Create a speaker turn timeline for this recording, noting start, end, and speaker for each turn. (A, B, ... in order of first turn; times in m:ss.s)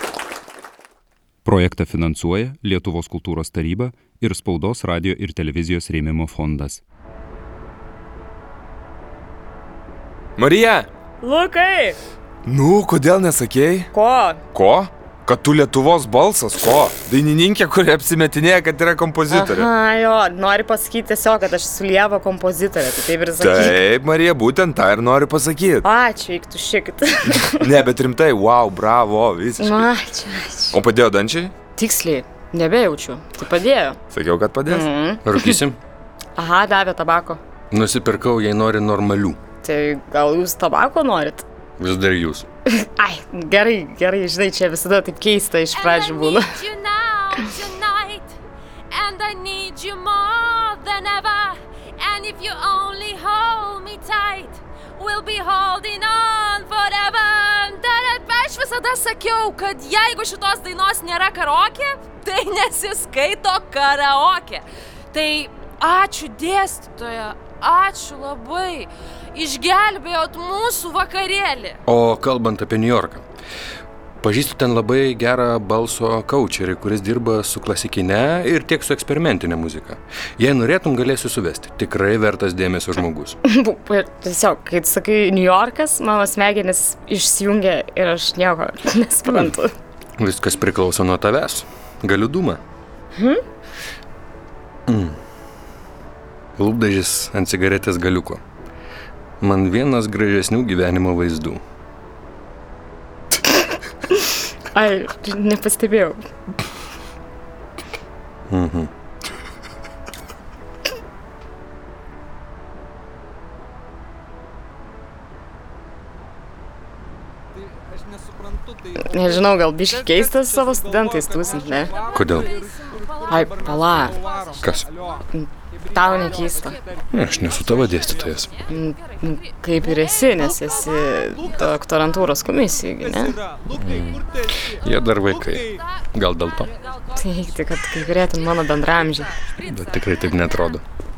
0:01.4-0:06.8 A
0:10.4-0:10.9 B
0:11.2-0:12.0 C
0:12.4-0:13.9 B
0:13.9-0:14.4 C
0:14.5-0:19.7 B
0:19.3-0:23.8 C
0:23.4-0:25.8 B
0:25.8-0:27.7 C
0:27.6-0:29.9 B
0:29.6-0:30.8 C
0:30.7-0:31.5 B
0:31.8-0:34.0 C
0:34.1-0:34.9 B
0:34.7-0:35.6 C
0:35.2-0:35.8 D
0:36.4-0:37.4 C
0:37.7-0:39.4 D
0:39.6-0:41.4 C
0:41.8-0:42.4 D
0:42.8-0:46.5 C
0:45.8-0:48.4 E
0:48.9-1:11.8 E
1:11.8-1:13.2 D
1:14.2-1:23.4 D
1:23.4-1:29.7 C
1:29.3-1:29.5 D
1:30.2-1:32.6 D
1:33.2-1:33.4 C
1:34.9-1:35.2 D
1:36.6-1:38.4 D
1:39.4-1:41.6 D
1:44.7-1:46.2 C
1:48.5-1:48.9 D
1:59.0-2:01.9 C
2:02.1-2:02.5 D
2:02.3-2:03.3 E
2:03.3-2:04.1 C
2:04.2-2:04.6 E
2:04.6-2:04.9 D
2:05.3-2:06.8 C
2:07.1-2:08.5 D
2:07.4-2:09.4 E
2:08.7-2:13.4 C
2:13.8-2:14.2 D
2:14.8-2:16.7 D
2:16.3-2:17.8 E
2:17.2-2:19.3 C
2:19.4-2:20.4 E
2:19.7-2:20.8 D